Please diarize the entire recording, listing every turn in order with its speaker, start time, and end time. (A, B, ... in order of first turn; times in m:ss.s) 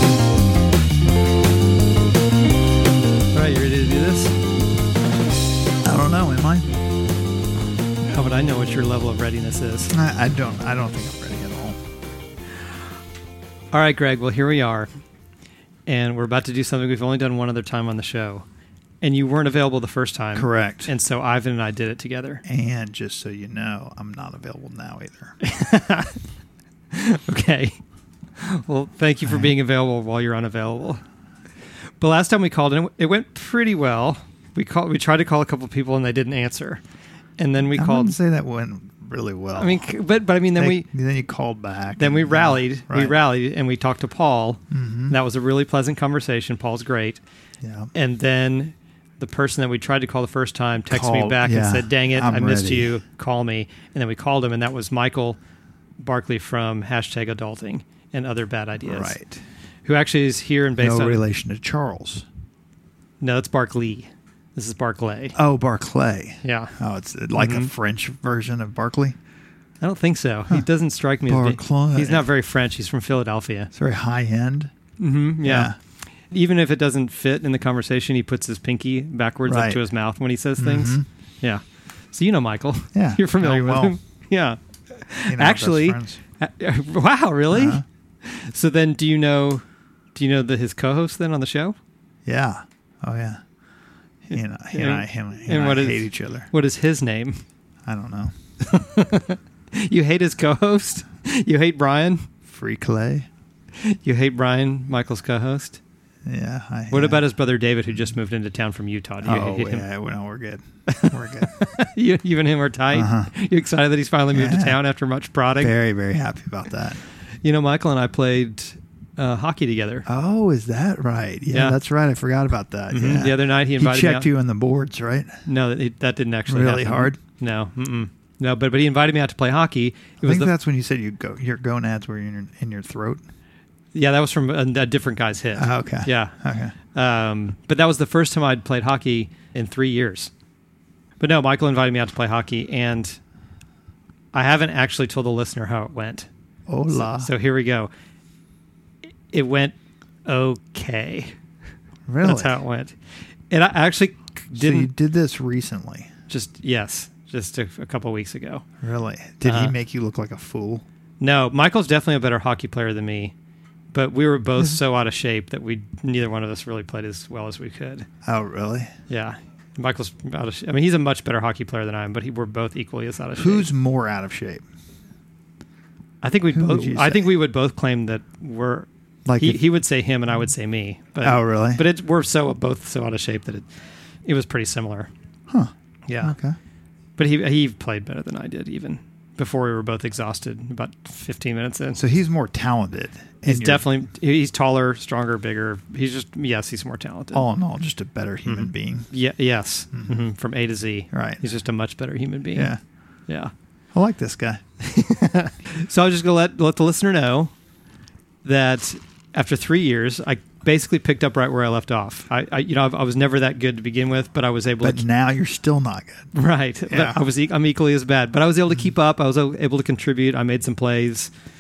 0:03.3-0:04.4 A
0:05.8-0:06.7 B
0:08.0-0:09.9 A
0:09.9-0:11.8 B
0:13.7-0:14.9 A
0:15.9-0:18.4 A
0:19.0-0:22.4 A
0:20.3-0:20.9 B
0:22.4-0:25.4 B
0:25.4-0:26.2 A
0:26.9-0:27.8 A
0:28.4-0:31.0 A
0:29.2-0:29.5 B
0:32.0-0:36.8 A
0:37.4-0:38.2 A
0:37.8-0:39.9 B
0:39.6-0:40.9 A
0:40.6-0:43.2 B
0:42.0-0:47.2 A
0:44.7-0:45.2 B
0:47.6-0:47.9 B
0:47.9-0:55.4 A
0:50.9-0:53.0 B
0:56.0-0:59.2 A
0:58.8-0:59.4 B
0:59.9-1:01.2 A
1:00.8-1:02.2 B
1:03.2-1:05.4 A
1:05.4-1:09.2 B
1:06.4-1:06.8 A
1:07.4-1:07.7 A
1:09.8-1:13.7 A
1:11.3-1:12.3 B
1:13.7-1:14.7 B
1:15.0-1:15.7 A
1:15.4-1:15.8 B
1:16.3-1:31.8 A
1:19.5-1:19.8 B
1:20.6-1:21.1 B
1:22.9-1:24.0 B
1:25.3-1:26.2 B
1:27.5-1:27.8 B
1:32.3-1:33.4 B
1:34.3-1:36.5 B
1:34.3-1:37.4 A
1:37.9-1:38.8 B
1:38.7-1:42.3 A
1:42.5-1:43.3 B
1:43.8-1:45.8 A
1:46.2-1:47.2 B
1:46.9-1:49.9 A
1:49.2-1:51.5 B
1:50.9-1:55.7 A
1:52.9-1:53.3 B
1:54.3-1:54.8 B
1:55.6-1:57.0 B
1:57.4-2:00.1 A
2:00.1-2:05.4 B
2:01.5-2:01.8 A
2:02.9-2:04.3 A
2:05.5-2:10.5 A
2:06.5-2:07.2 B
2:10.2-2:13.2 B
2:13.9-2:16.4 A
2:15.5-2:16.7 B
2:16.9-2:20.3 A
2:21.2-2:23.2 A
2:24.3-2:26.3 A
2:26.7-2:27.3 B
2:26.9-2:27.9 A
2:29.3-2:31.4 A
2:32.1-2:32.6 B
2:32.2-2:33.0 A
2:33.5-2:34.9 A
2:34.5-2:36.1 B
2:36.3-2:38.6 A
2:38.8-2:40.8 B
2:39.4-2:39.8 A
2:41.2-2:43.3 A
2:43.9-2:48.1 A
2:48.2-2:48.9 B
2:49.1-2:53.7 A
2:53.4-2:54.6 B
2:56.2-3:03.6 A
2:56.5-2:57.3 B
2:59.2-2:59.6 B
3:01.2-3:01.8 B
3:04.2-3:05.1 A
3:06.1-3:06.4 A
3:06.2-3:06.6 B
3:07.2-3:12.0 A
3:12.0-3:13.9 B
3:13.5-3:17.4 A
3:17.3-3:19.1 B
3:18.5-3:22.7 A
3:21.1-3:21.4 B
3:22.6-3:22.8 B
3:23.9-3:24.6 B
3:24.8-3:27.5 A
3:28.4-3:35.0 A
3:34.8-3:36.3 B
3:36.3-3:41.3 A
3:36.9-3:37.2 B